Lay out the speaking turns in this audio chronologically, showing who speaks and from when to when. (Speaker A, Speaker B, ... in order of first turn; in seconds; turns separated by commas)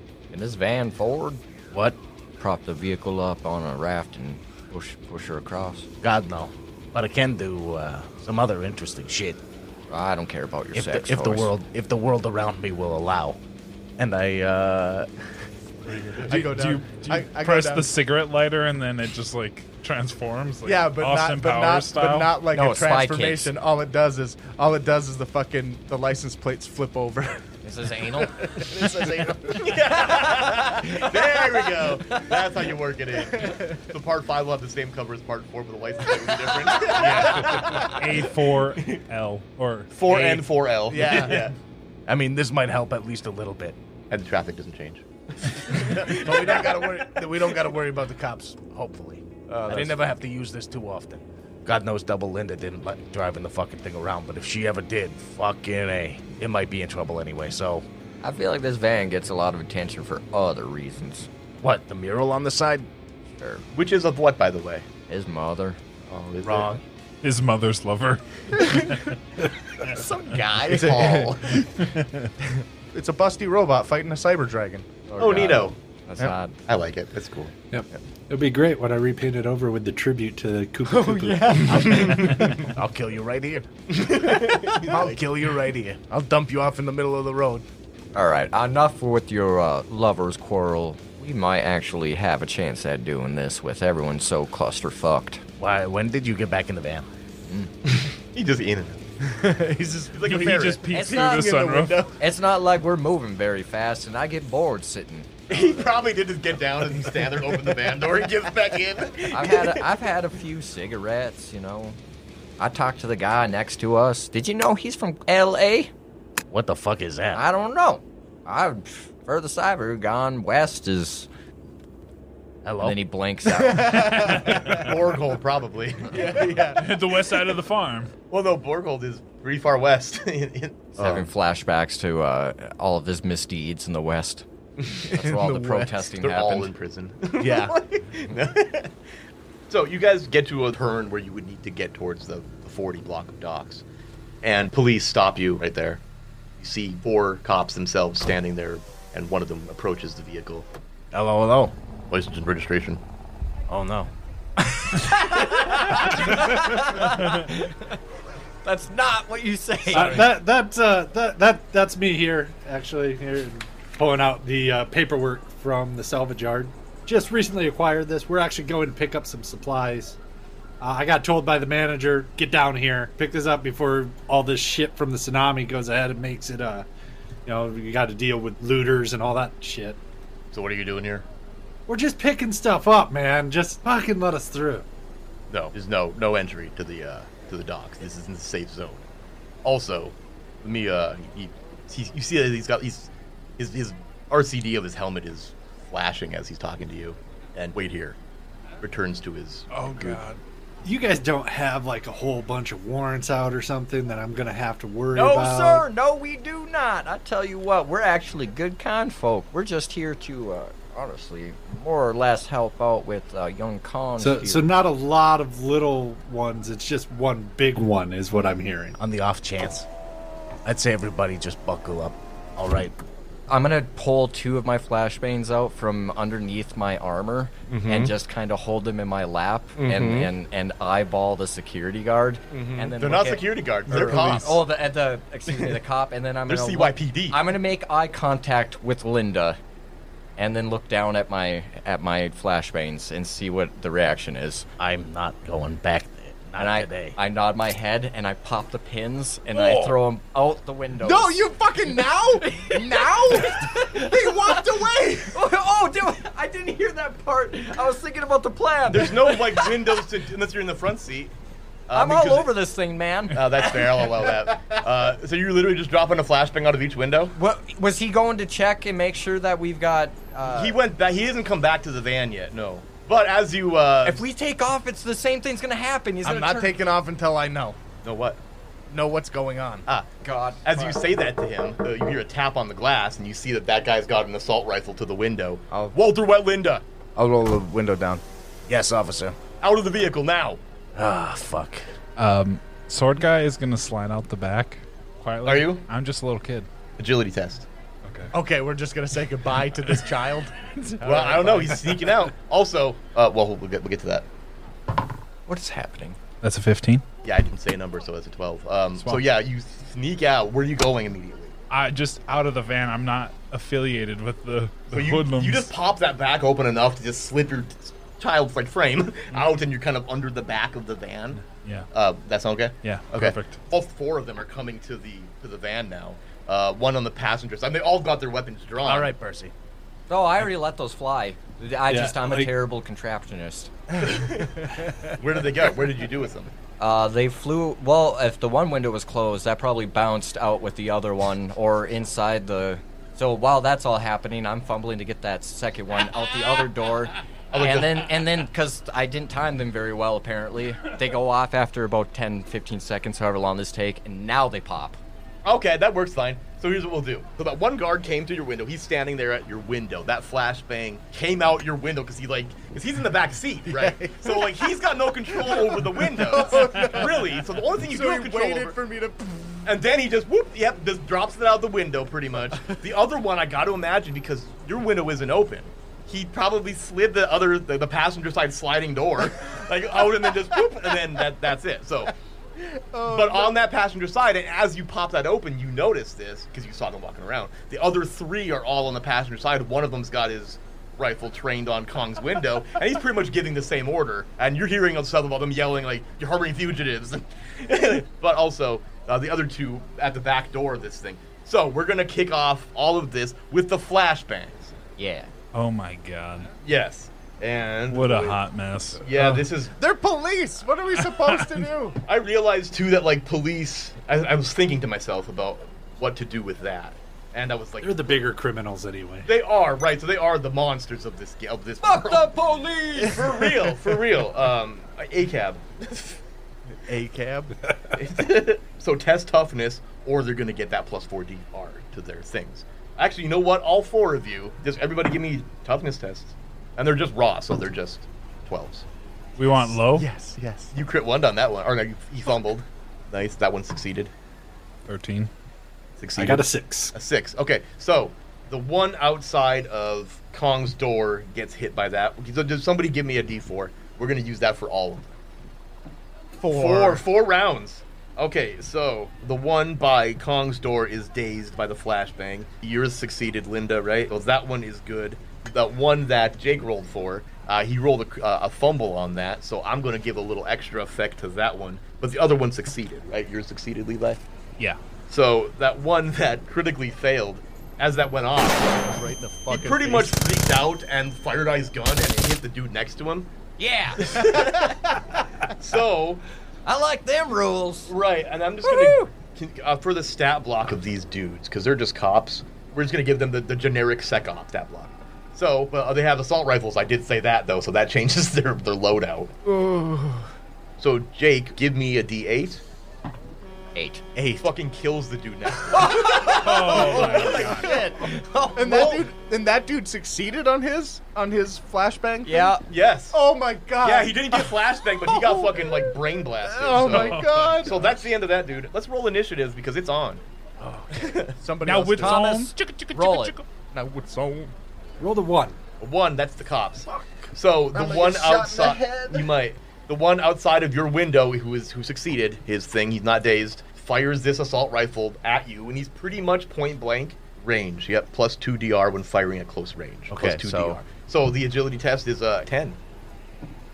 Speaker A: 0.3-1.4, Speaker B: 1.7-2.0, Speaker A: 2.4-5.9, Speaker B: 6.0-9.4, Speaker A: 9.9-11.5, Speaker B: 10.7-13.4, Speaker B: 14.0-15.1, Speaker C: 15.9-17.9, Speaker D: 16.3-22.4, Speaker C: 20.6-27.4, Speaker A: 22.5-23.5, Speaker A: 27.6-28.8, Speaker C: 28.2-30.1, Speaker E: 29.5-39.0, Speaker A: 30.0-31.1, Speaker C: 33.2-33.8, Speaker C: 36.6-38.0, Speaker D: 37.4-40.0, Speaker E: 39.9-41.5, Speaker C: 40.1-41.5, Speaker B: 41.0-41.4, Speaker B: 42.1-43.8, Speaker E: 44.1-47.1, Speaker B: 46.0-57.9, Speaker E: 49.5-50.0, Speaker A: 58.2-61.3, Speaker B: 61.6-62.9, Speaker A: 63.4-63.6, Speaker E: 63.8-64.9, Speaker A: 65.1-65.8, Speaker E: 66.1-66.8, Speaker D: 67.2-69.2, Speaker A: 69.8-71.0, Speaker E: 70.7-71.7, Speaker C: 70.7-71.7, Speaker D: 71.8-72.3, Speaker C: 72.4-74.9, Speaker A: 75.1-76.5, Speaker E: 75.2-75.8, Speaker E: 76.7-77.5, Speaker F: 77.7-81.8, Speaker C: 80.9-82.7, Speaker E: 81.8-82.5, Speaker B: 82.1-87.7, Speaker E: 83.9-85.2, Speaker A: 88.2-95.4, Speaker B: 95.6-97.1, Speaker E: 97.8-99.0, Speaker C: 99.2-102.1, Speaker E: 100.2-100.9, Speaker D: 100.2-102.0, Speaker A: 100.9-101.6, Speaker A: 102.2-105.9, Speaker E: 105.5-109.9, Speaker A: 109.3-112.0, Speaker A: 112.6-115.9, Speaker B: 116.5-117.4, Speaker A: 117.3-121.3, Speaker B: 122.6-123.0, Speaker A: 122.8-124.1, Speaker C: 123.5-125.2, Speaker D: 124.1-124.6, Speaker E: 124.6-126.8, Speaker C: 126.1-126.9, Speaker D: 126.7-128.1, Speaker E: 128.3-131.3, Speaker A: 131.0-134.4, Speaker A: 135.0-136.7, Speaker C: 135.1-136.1, Speaker E: 136.2-138.9, Speaker C: 137.4-137.8, Speaker E: 139.7-143.8, Speaker E: 144.4-146.0, Speaker E: 146.6-150.7, Speaker B: 151.1-151.7, Speaker E: 152.1-153.0, Speaker B: 153.7-154.1, Speaker A: 155.4-158.0, Speaker D: 157.2-157.5, Speaker A: 158.6-160.3, Speaker F: 159.9-170.2, Speaker F: 170.8-176.9, Speaker F: 177.5-180.0, Speaker E: 180.5-181.2, Speaker F: 181.9-184.9, Speaker E: 185.5-189.0, Speaker E: 189.6-198.2, Speaker E: 198.8-200.2, Speaker F: 199.7-205.9, Speaker A: 205.1-214.7, Speaker F: 214.2-219.0, Speaker B: 219.0-219.9, Speaker B: 220.7-222.9, Speaker A: 223.5-239.6, Speaker E: 227.7-228.1, Speaker E: 229.8-230.3, Speaker E: 232.5-234.6, Speaker C: 233.9-234.4, Speaker E: 235.5-235.8, Speaker E: 236.5-237.5, Speaker A: 240.4-244.7, Speaker B: 244.8-247.2, Speaker A: 246.6-251.3, Speaker C: 249.6-249.9, Speaker C: 251.0-255.4, Speaker A: 252.4-260.0, Speaker E: 258.9-261.3, Speaker E: 261.9-262.5, Speaker A: 261.9-263.4, Speaker E: 263.3-267.4, Speaker A: 267.4-270.8, Speaker E: 270.5-274.2, Speaker A: 274.0-276.8, Speaker C: 276.2-277.8, Speaker E: 278.0-278.4, Speaker B: 278.9-279.9, Speaker A: 280.2-281.0, Speaker E: 280.6-286.8, Speaker C: 287.2-288.2, Speaker B: 288.7-289.4, Speaker E: 289.6-290.6, Speaker B: 291.0-291.9, Speaker D: 292.2-296.7, Speaker E: 295.4-295.9, Speaker E: 297.0-297.7, Speaker D: 298.1-298.3, Speaker C: 298.3-302.0, Speaker B: 298.4-299.6, Speaker E: 301.0-304.3, Speaker A: 305.5-306.2, Speaker D: 306.4-307.0, Speaker E: 307.2-311.6, Speaker D: 311.7-315.7, Speaker E: 314.9-329.1, Speaker D: 321.4-321.9, Speaker D: 322.8-323.6, Speaker B: 328.8-329.5, Speaker A: 330.1-333.7, Speaker F: 331.9-332.6, Speaker E: 334.0-336.5, Speaker C: 334.6-335.1, Speaker A: 336.8-355.0, Speaker E: 347.5-348.2, Speaker E: 355.4-368.8, Speaker C: 363.7-364.7, Speaker C: 365.3-369.6, Speaker E: 369.6-382.1, Speaker C: 382.6-383.6, Speaker E: 383.1-404.8, Speaker A: 405.0-405.3, Speaker D: 405.5-406.5, Speaker E: 406.6-408.4, Speaker D: 407.9-409.1, Speaker E: 409.0-409.8, Speaker C: 409.2-412.0, Speaker D: 411.0-411.7, Speaker E: 412.1-418.1, Speaker F: 417.8-419.3, Speaker E: 419.2-422.3, Speaker A: 421.8-423.3, Speaker E: 423.0-426.2, Speaker C: 426.9-427.6, Speaker E: 427.9-438.9, Speaker D: 439.4-440.1, Speaker C: 439.5-440.7, Speaker E: 440.7-444.1, Speaker D: 444.9-445.3, Speaker E: 446.0-455.1, Speaker F: 446.2-446.9, Speaker C: 456.4-457.0, Speaker E: 456.5-474.2, Speaker E: 475.1-478.9, Speaker C: 478.8-480.2, Speaker E: 479.5-483.3, Speaker A: 483.6-484.1, Speaker E: 484.0-484.9, Speaker C: 484.2-485.0, Speaker E: 485.5-486.2, Speaker A: 486.7-487.9, Speaker E: 487.9-499.3, Speaker A: 488.6-489.1, Speaker C: 499.4-500.3, Speaker E: 500.8-502.6, Speaker A: 503.8-504.0, Speaker C: 504.2-504.5, Speaker E: 504.4-507.9, Speaker A: 505.7-509.0, Speaker D: 506.2-507.6, Speaker C: 506.8-507.9, Speaker C: 508.6-512.6, Speaker E: 508.7-509.0, Speaker A: 512.2-512.6, Speaker E: 512.7-513.2, Speaker C: 513.1-518.0, Speaker E: 513.8-520.2, Speaker D: 516.8-517.6, Speaker C: 520.6-522.2, Speaker E: 520.9-521.4, Speaker D: 521.6-523.5, Speaker A: 522.0-523.4, Speaker C: 523.7-524.5, Speaker F: 525.0-525.6, Speaker E: 525.8-542.8, Speaker C: 526.9-529.1, Speaker C: 540.1-540.8